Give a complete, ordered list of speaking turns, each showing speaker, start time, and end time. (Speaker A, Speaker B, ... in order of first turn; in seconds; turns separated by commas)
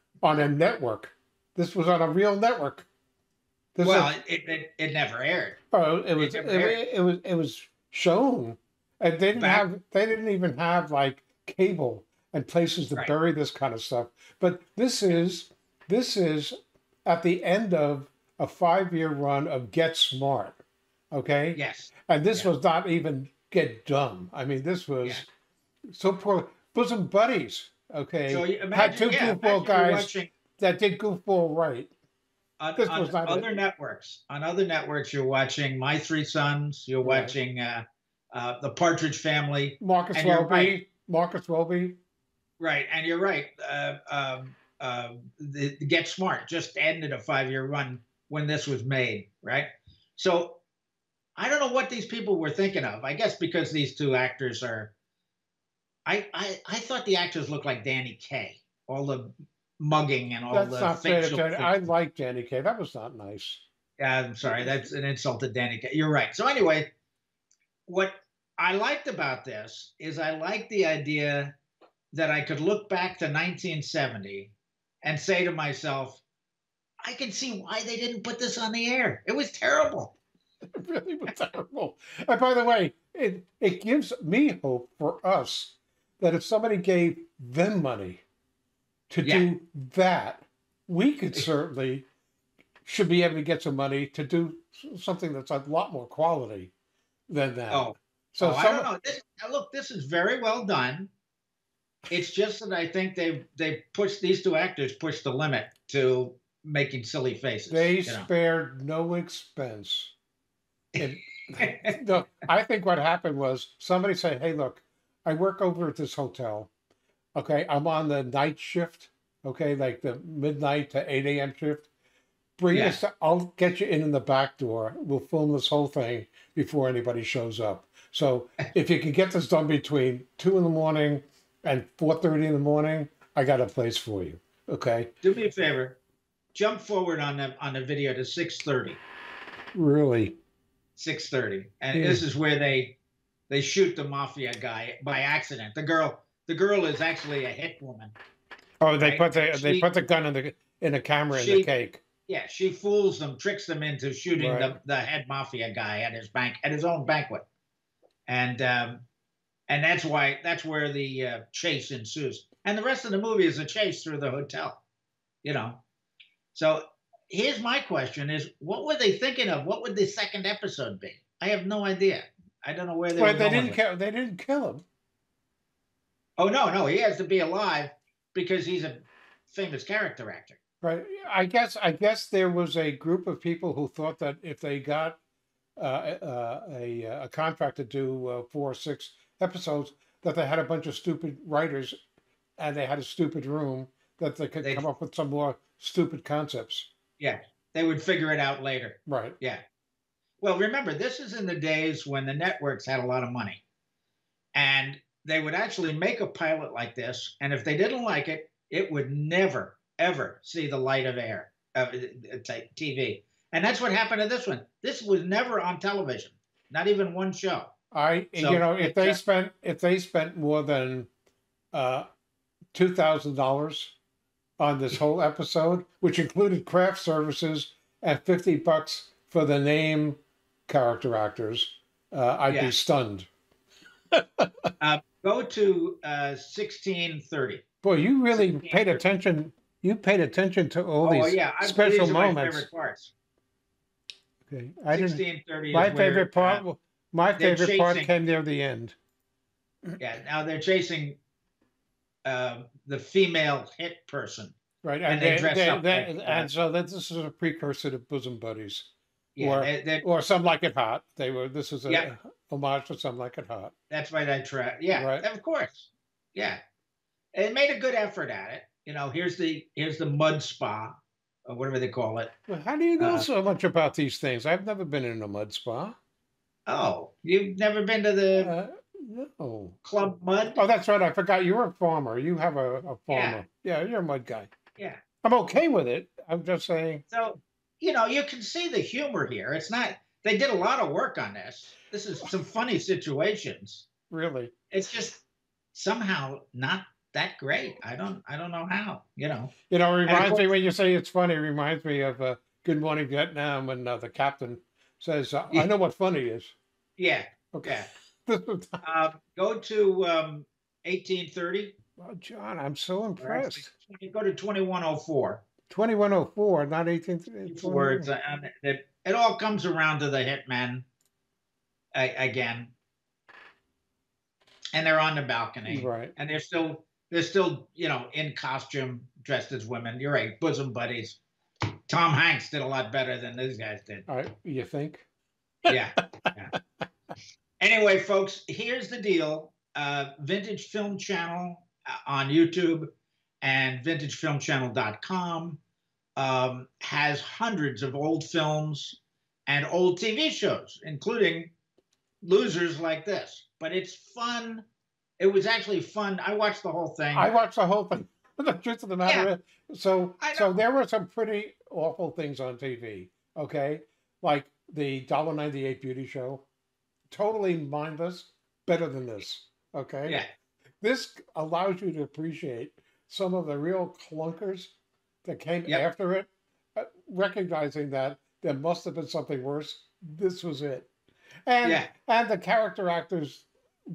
Speaker A: 0.2-2.9, Speaker A: 3.7-4.1, Speaker B: 3.8-5.6, Speaker A: 5.7-20.6, Speaker B: 6.1-6.8, Speaker B: 9.3-9.6, Speaker A: 21.1-25.3, Speaker B: 21.5-22.5, Speaker A: 25.9-31.9, Speaker B: 28.3-30.3, Speaker B: 32.6-40.8, Speaker A: 32.8-33.5, Speaker A: 37.0-37.3, Speaker A: 39.8-42.0, Speaker B: 42.6-50.6, Speaker B: 51.4-54.9, Speaker B: 56.0-61.8, Speaker A: 60.5-63.6, Speaker B: 64.0-66.9, Speaker A: 64.4-64.9, Speaker B: 67.9-71.6, Speaker B: 72.1-76.2, Speaker B: 77.0-80.1, Speaker A: 80.8-88.2, Speaker A: 89.1-92.1, Speaker B: 89.2-89.5, Speaker A: 92.8-96.7, Speaker A: 97.3-98.9, Speaker B: 97.7-101.1, Speaker B: 102.1-108.3, Speaker A: 107.7-110.1, Speaker B: 110.9-111.9, Speaker A: 111.0-116.7, Speaker A: 117.3-121.9, Speaker A: 122.6-135.1, Speaker B: 122.7-123.0, Speaker B: 135.2-136.0, Speaker B: 136.5-139.0, Speaker A: 139.7-140.4, Speaker B: 141.0-142.9, Speaker A: 141.9-142.2, Speaker B: 143.5-148.1, Speaker A: 148.8-152.0, Speaker B: 149.0-149.9, Speaker B: 151.3-151.7, Speaker B: 152.3-157.4, Speaker A: 154.4-154.7, Speaker B: 158.3-159.0, Speaker B: 159.7-164.8, Speaker B: 165.4-165.8, Speaker B: 166.5-173.8, Speaker A: 173.2-174.8, Speaker B: 176.4-180.6, Speaker A: 180.8-185.2, Speaker A: 185.8-192.0, Speaker A: 192.6-196.9, Speaker B: 194.6-194.9, Speaker B: 197.2-199.6, Speaker A: 199.1-199.3, Speaker B: 200.4-203.6, Speaker B: 204.5-217.7, Speaker A: 217.9-221.1, Speaker B: 218.3-219.2, Speaker A: 221.7-222.1, Speaker A: 222.7-224.0, Speaker A: 224.6-233.3, Speaker B: 232.5-232.8, Speaker A: 234.2-234.5, Speaker B: 234.8-237.6, Speaker A: 237.8-242.7, Speaker B: 238.3-239.0, Speaker B: 241.0-243.1, Speaker A: 244.5-248.9, Speaker B: 244.9-246.6, Speaker B: 247.3-248.1, Speaker B: 250.0-251.2, Speaker B: 252.2-256.5, Speaker A: 254.8-263.7, Speaker B: 259.4-260.0, Speaker B: 263.9-266.6, Speaker A: 264.9-265.2, Speaker B: 267.3-272.3, Speaker A: 272.5-275.9, Speaker B: 273.0-273.3, Speaker B: 276.7-278.5, Speaker A: 278.4-279.8, Speaker B: 279.8-280.6, Speaker A: 280.5-284.5, Speaker B: 283.1-283.4, Speaker A: 285.2-287.0, Speaker B: 287.1-293.9, Speaker A: 294.1-294.5, Speaker B: 294.7-295.2, Speaker B: 295.7-299.5, Speaker A: 299.7-306.5, Speaker B: 300.1-300.5, Speaker B: 307.0-307.9, Speaker A: 307.5-308.8, Speaker B: 308.8-311.7, Speaker A: 312.0-313.7, Speaker B: 313.2-315.4, Speaker A: 315.7-318.1, Speaker B: 317.4-320.8, Speaker B: 321.9-322.7, Speaker B: 324.7-331.2, Speaker A: 325.6-326.1, Speaker B: 331.9-334.1, Speaker A: 334.1-335.1, Speaker B: 335.7-336.5, Speaker B: 337.6-345.6, Speaker B: 346.2-351.5, Speaker B: 352.2-354.6, Speaker B: 355.2-357.3, Speaker A: 357.1-366.5, Speaker B: 360.2-360.6, Speaker A: 367.1-370.2, Speaker A: 370.8-380.9, Speaker A: 381.4-383.5, Speaker B: 381.6-381.9